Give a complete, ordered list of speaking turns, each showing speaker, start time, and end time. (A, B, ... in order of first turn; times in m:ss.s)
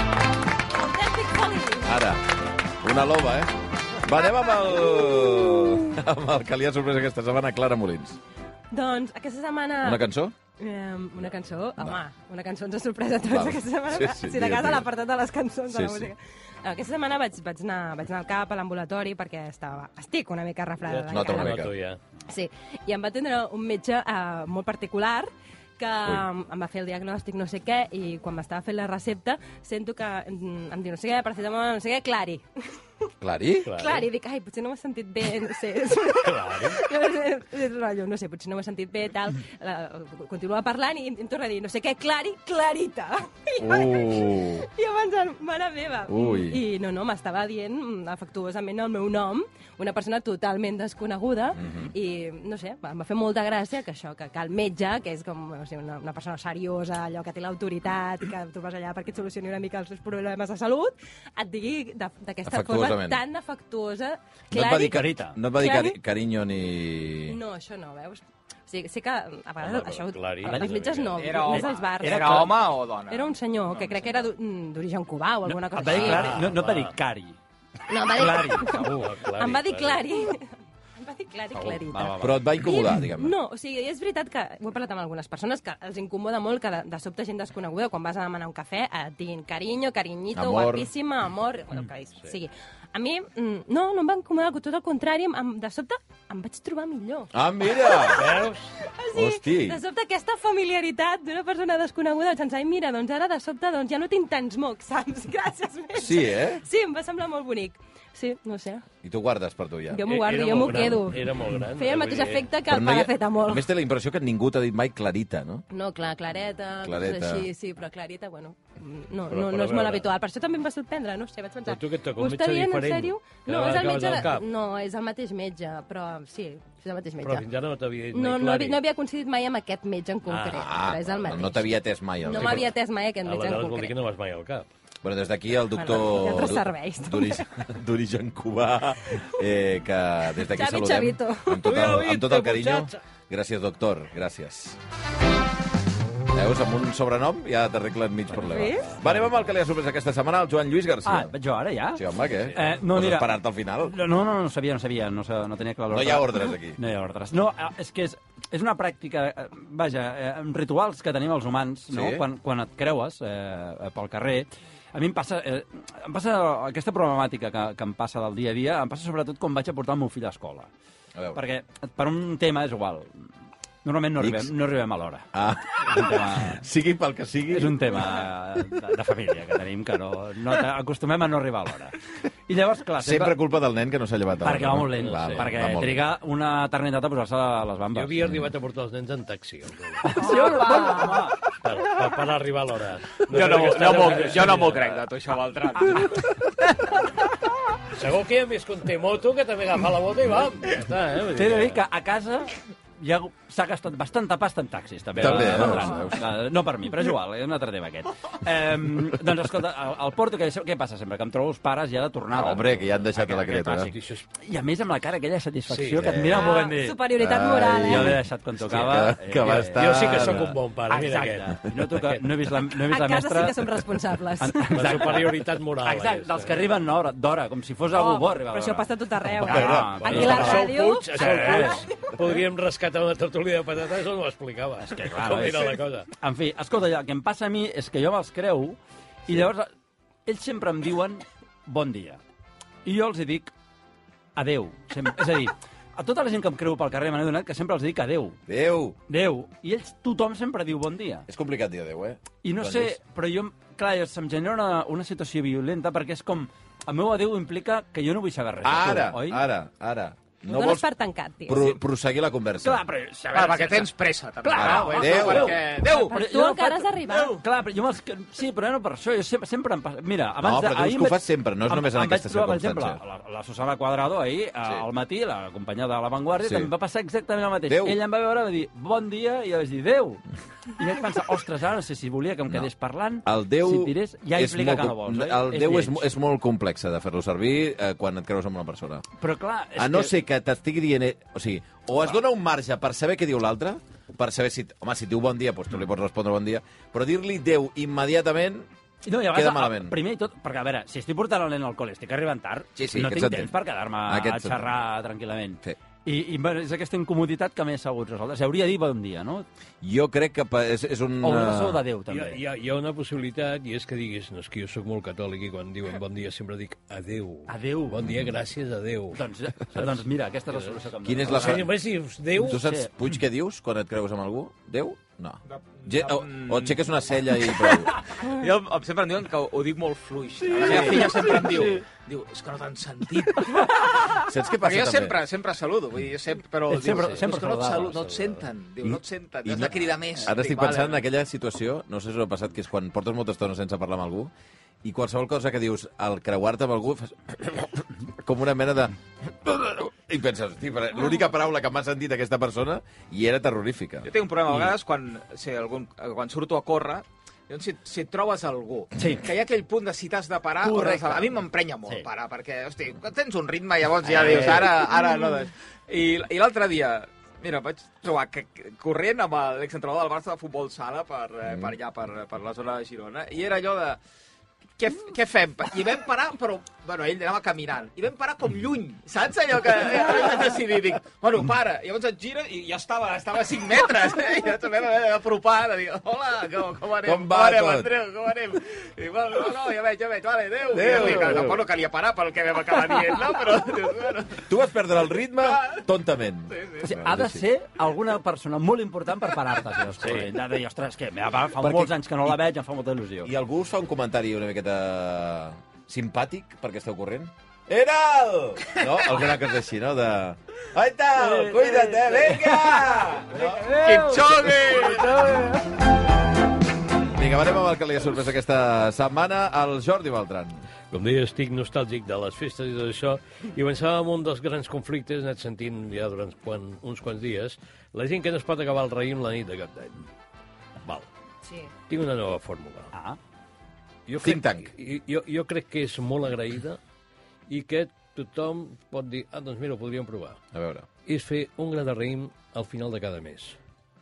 0:00.7-0:01.9 A
0:01.8-0:02.2 B
0:02.8-0:08.2 B
0:04.4-0:05.2 A
0:08.7-0:10.0 A
0:09.8-0:10.3 B
0:10.6-0:21.6 A
0:13.2-0:14.9 B
0:15.7-0:16.1 B
0:20.8-0:22.0 C
0:21.1-0:21.7 B
0:22.3-0:32.4 A
0:33.2-0:33.7 B
0:33.6-0:34.1 C
0:33.7-1:06.0 A
0:36.2-0:36.8 C
0:43.6-0:44.7 B
0:46.1-0:46.6 B
0:51.6-0:51.9 B
1:02.4-1:03.2 B
1:04.5-1:07.4 B
1:04.8-1:05.4 D
1:07.2-1:12.5 A
1:09.6-1:11.2 C
1:10.4-1:12.7 D
1:11.2-1:14.3 E
1:13.1-1:16.4 A
1:15.4-1:17.4 D
1:15.9-1:17.0 C
1:17.9-1:48.8 A
1:18.1-1:18.9 D
1:18.6-1:20.0 C
1:21.5-1:22.4 D
1:22.2-1:23.3 B
1:30.3-1:30.9 B
1:37.3-1:38.3 B
1:38.2-1:38.7 C
1:39.1-1:39.8 B
1:46.0-1:46.6 B
1:49.0-1:50.0 B
1:49.9-1:53.7 A
1:50.0-1:52.5 C
1:52.7-1:55.6 B
1:55.7-2:07.5 A
1:56.8-1:57.5 B
1:59.3-2:00.1 C
2:01.6-2:04.4 C
2:07.2-2:08.8 C
2:08.1-2:14.0 A
2:10.3-2:10.8 C
2:10.5-2:12.7 B
2:12.4-2:12.6 C
2:13.2-2:14.7 C
2:15.0-2:24.8 B
2:15.7-2:17.4 A
2:20.4-2:21.8 A
2:21.6-2:23.0 C
2:26.3-2:31.3 B
2:28.4-2:29.4 D
2:28.4-2:28.9 A
2:31.0-2:50.7 D
2:31.9-2:34.0 B
2:32.3-2:32.7 C
2:35.9-2:36.8 B
2:41.9-2:42.2 B
2:51.1-2:51.4 B
2:51.3-2:53.2 D
2:53.8-2:55.3 D
2:54.2-2:54.5 B
2:55.3-2:57.9 B
2:55.8-2:56.6 D
2:57.5-3:03.4 D
3:03.0-3:06.0 B
3:04.4-3:08.3 D
3:05.0-3:05.5 C
3:07.9-3:10.3 C
3:10.0-3:11.4 D
3:10.2-3:11.2 A
3:11.5-3:15.0 C
3:13.3-3:16.3 E
3:15.8-3:16.2 D
3:17.9-3:21.8 C
3:21.3-3:37.0 D
3:25.2-3:26.2 B
3:25.2-3:25.9 C
3:32.3-3:33.9 B
3:33.9-3:34.2 C
3:35.7-3:36.2 C
3:36.0-3:36.5 B
3:36.3-3:38.1 A
3:37.2-3:40.5 B
3:37.8-3:43.8 D
3:39.7-3:42.2 C
3:42.8-3:45.0 A
3:44.4-3:51.8 D
3:44.7-3:46.6 C
3:47.9-3:51.9 A
3:49.5-3:49.9 B
3:49.6-3:56.1 C
3:54.8-3:59.7 D
4:00.2-4:02.2 D
4:02.8-4:03.5 D
4:04.4-4:08.4 D
4:08.5-4:09.0 B
4:09.1-4:11.3 D
4:11.3-4:13.0 B
4:12.4-4:19.4 D
4:18.6-4:20.8 B
4:20.4-4:21.7 A
4:21.4-4:22.8 B
4:22.6-4:40.2 D
4:23.3-4:26.2 E
4:24.6-4:25.6 B
4:25.8-4:27.4 A
4:30.4-4:33.0 B
4:36.4-4:36.7 B
4:37.7-4:38.0 B
4:40.8-4:46.1 D
4:43.2-4:49.0 B
4:49.2-4:50.1 D
4:49.8-4:58.7 B
4:59.0-5:09.4 D
4:59.3-5:00.0 B
5:02.8-5:03.5 B
5:04.0-5:04.7 B
5:09.8-5:11.8 B
5:11.2-5:12.4 D
5:12.1-5:19.2 C
5:17.5-5:18.2 D
5:19.1-5:21.7 D
5:20.5-5:22.6 C
5:21.0-5:21.7 B
5:22.4-5:27.9 B
5:22.4-5:22.9 D
5:25.5-5:26.8 E
5:28.2-5:41.0 E
5:30.5-5:31.8 D
5:30.6-5:31.3 B
5:34.2-5:35.2 B
5:36.7-5:38.0 D
5:36.9-5:37.2 C
5:38.0-5:38.4 C
5:38.8-5:44.3 B
5:44.8-5:54.1 B
5:54.0-6:14.0 E
5:54.5-5:54.7 D
5:59.0-5:59.3 D
6:00.6-6:02.0 D
6:04.0-6:04.8 D
6:05.0-6:05.4 A
6:14.8-6:34.5 E
6:27.0-6:27.9 B
6:30.7-6:31.6 B
6:34.5-6:37.4 B
6:35.4-6:35.8 E
6:36.5-6:36.9 E
6:36.8-6:43.3 D
6:40.0-6:40.3 C
6:41.6-6:42.4 B
6:43.2-6:54.5 B
6:51.2-6:55.8 D
6:53.8-6:55.1 E
6:57.0-7:00.6 B
7:00.9-7:10.0 C
7:11.9-7:12.9 C
7:12.9-7:13.2 D
7:14.1-7:16.8 C
7:14.2-7:14.7 B
7:17.5-7:20.4 C
7:20.5-7:20.9 B
7:21.0-7:23.6 C